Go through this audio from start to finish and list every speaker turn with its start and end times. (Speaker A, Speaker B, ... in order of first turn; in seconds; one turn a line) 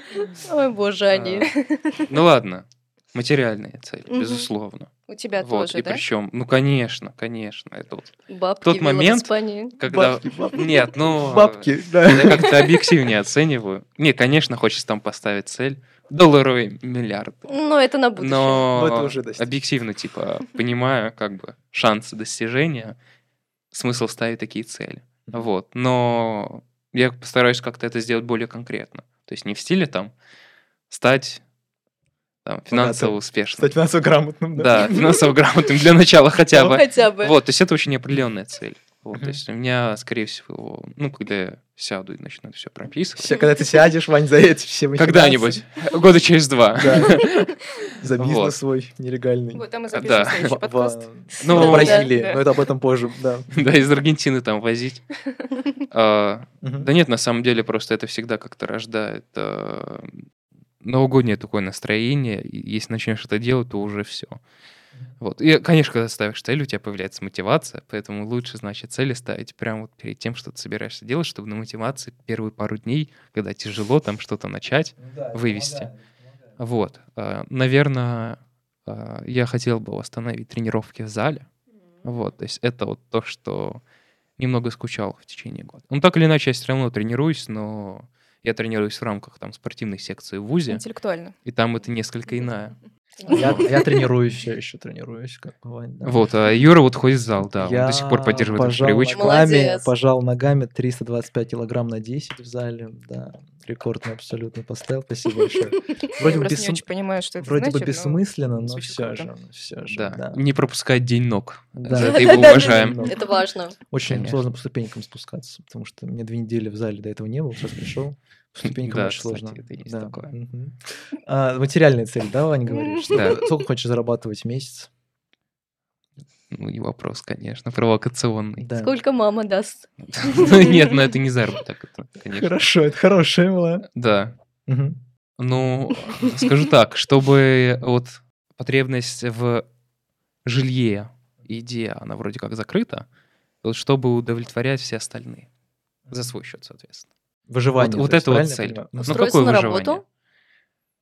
Speaker A: 0.4-2.0
Speaker B: 1.1-1.5
Speaker B: 2.1-17.5
Speaker A: 4.1-4.5
Speaker C: 5.1-6.0
Speaker A: 8.3-9.8
Speaker D: 9.8-12.9
Speaker A: 17.5-18.7
Speaker B: 18.2-23.0
Speaker D: 18.7-19.6
Speaker B: 23.7-30.1
Speaker B: 30.9-31.4
Speaker B: 32.5-33.8
Speaker D: 32.7-35.3
Speaker B: 34.5-43.4
Speaker A: 36.5-37.4
Speaker D: 39.1-39.4
Speaker D: 43.2-45.6
Speaker B: 45.0-47.5
Speaker D: 46.8-53.6
Speaker B: 48.2-48.5
Speaker C: 49.5-52.4
Speaker B: 49.9-50.6
Speaker B: 51.4-52.1
Speaker A: 51.7-52.1
Speaker B: 53.5-55.1
Speaker B: 55.9-60.2
Speaker D: 56.6-56.9
Speaker B: 60.8-64.4
Speaker B: 65.2-75.9
Speaker D: 75.0-76.5
Speaker B: 76.6-81.5
Speaker B: 82.0-83.8
Speaker B: 84.4-90.8
Speaker C: 90.7-91.4
Speaker B: 91.5-92.8
Speaker A: 93.2-93.6
Speaker D: 93.3-96.2
Speaker B: 96.0-99.3
Speaker D: 97.6-106.8
Speaker A: 99.1-99.9
Speaker C: 106.2-109.3
Speaker D: 107.4-110.4
Speaker B: 109.9-113.0
Speaker D: 111.8-113.3
Speaker A: 111.9-113.8
Speaker D: 113.9-124.9
Speaker B: 114.0-114.4
Speaker B: 118.6-120.3
Speaker A: 122.7-123.4
Speaker B: 123.1-123.4
Speaker B: 126.5-128.7
Speaker D: 128.6-128.9
Speaker A: 128.8-130.8
Speaker B: 130.1-132.6
Speaker D: 132.3-133.9
Speaker B: 133.9-134.3
Speaker D: 134.7-135.0
Speaker B: 135.4-139.7
Speaker B: 140.4-143.1
Speaker B: 143.6-145.5
Speaker B: 146.1-147.1
Speaker D: 147.5-149.3
Speaker B: 147.8-150.0
Speaker A: 149.0-150.0